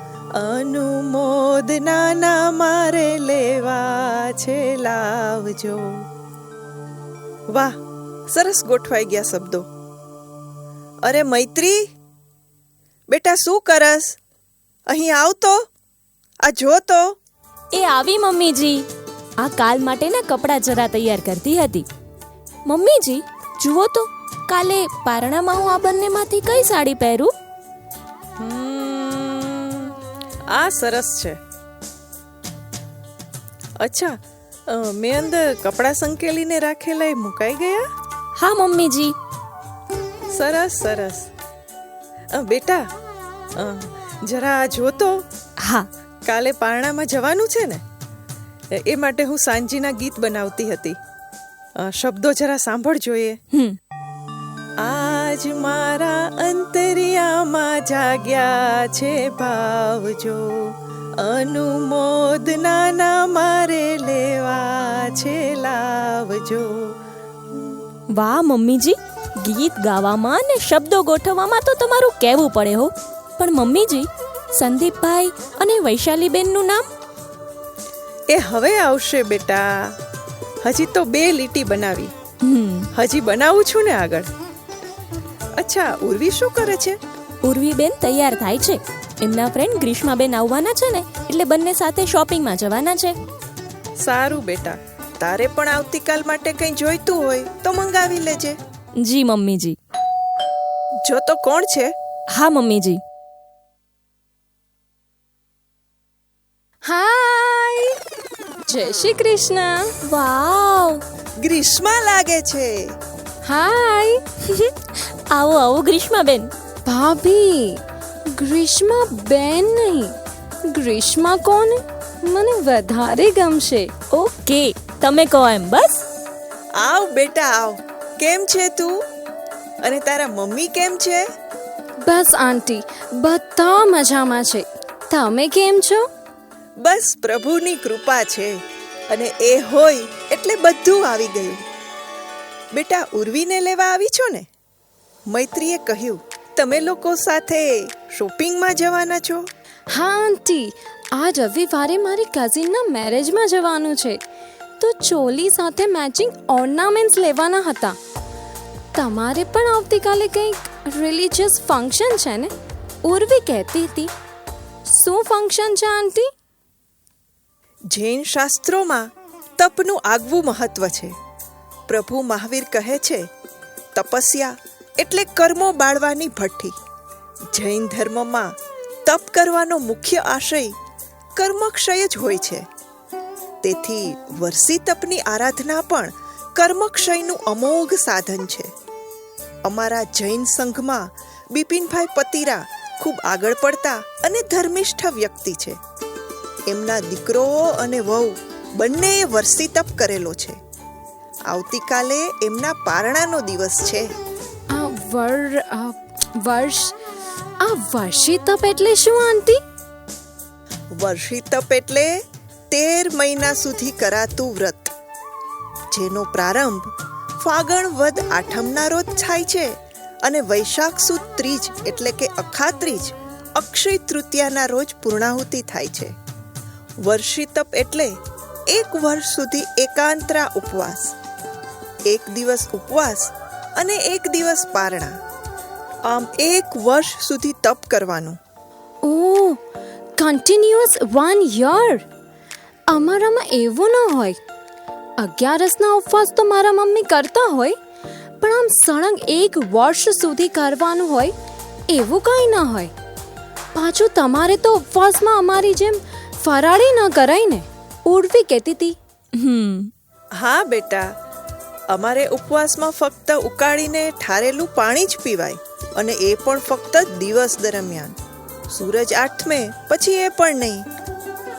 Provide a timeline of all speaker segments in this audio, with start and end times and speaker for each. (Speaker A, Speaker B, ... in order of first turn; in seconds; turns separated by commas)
Speaker A: 0.3-5.8, Speaker A: 7.5-7.8, Speaker A: 8.3-9.7, Speaker A: 11.0-11.8, Speaker A: 13.1-14.2, Speaker A: 14.9-15.6, Speaker A: 16.4-17.2, Speaker B: 17.7-18.9, Speaker B: 19.4-21.9, Speaker B: 22.7-27.3, Speaker A: 28.4-29.9, Speaker A: 30.5-31.4, Speaker A: 33.8-37.9, Speaker B: 38.4-39.1, Speaker A: 40.4-41.3, Speaker A: 42.3-42.8, Speaker A: 43.6-45.2, Speaker B: 45.6-45.9, Speaker A: 46.3-47.8, Speaker A: 48.8-51.0, Speaker A: 51.8-53.4, Speaker A: 54.8-60.4, Speaker A: 61.2-66.7, Speaker B: 68.2-76.9, Speaker A: 78.3-80.0, Speaker A: 80.6-82.1, Speaker B: 82.4-82.9, Speaker A: 82.9-84.3, Speaker A: 85.6-87.0, Speaker B: 87.4-93.2, Speaker A: 94.0-98.6, Speaker B: 99.0-99.8, Speaker A: 101.0-102.0, Speaker B: 102.3-103.0, Speaker C: 106.8-108.0, Speaker C: 108.7-109.9, Speaker B: 110.1-111.0, Speaker A: 111.4-112.7, Speaker C: 113.5-114.2, Speaker B: 114.5-114.7, Speaker B: 115.3-116.5, Speaker C: 116.9-117.8, Speaker C: 118.4-120.2, Speaker C: 120.7-123.9, Speaker B: 124.1-126.0, Speaker A: 126.8-129.0, Speaker A: 129.8-131.3, Speaker C: 132.1-136.1, Speaker A: 136.8-138.6, Speaker A: 139.1-141.6, Speaker A: 142.7-144.5, Speaker A: 145.3-149.5, Speaker C: 149.9-154.2, Speaker C: 154.8-158.0, Speaker C: 158.9-162.5, Speaker C: 163.1-164.1, Speaker C: 164.9-166.3, Speaker A: 167.9-169.1, Speaker A: 169.6-171.2, Speaker A: 171.9-173.3, Speaker A: 174.0-176.8, Speaker A: 177.5-178.6, Speaker A: 179.1-180.8, Speaker A: 181.4-182.7, Speaker A: 183.6-188.7, Speaker A: 189.7-195.8, Speaker A: 196.7-200.6, Speaker A: 201.5-204.1, Speaker C: 204.7-206.9, Speaker C: 207.6-209.6, Speaker A: 211.0-212.1, Speaker A: 212.7-214.9, Speaker A: 215.9-226.1, Speaker A: 227.0-228.2, Speaker A: 228.7-231.1, Speaker A: 232.1-235.2, Speaker A: 236.1-238.4, Speaker C: 239.0-239.6, Speaker C: 240.2-242.0, Speaker C: 242.9-244.4, Speaker C: 245.2-247.8, Speaker C: 248.4-251.3, Speaker C: 251.9-252.9, Speaker C: 253.7-259.0, Speaker B: 259.4-259.9, Speaker A: 260.4-261.1, Speaker A: 261.9-268.2, Speaker A: 268.7-270.9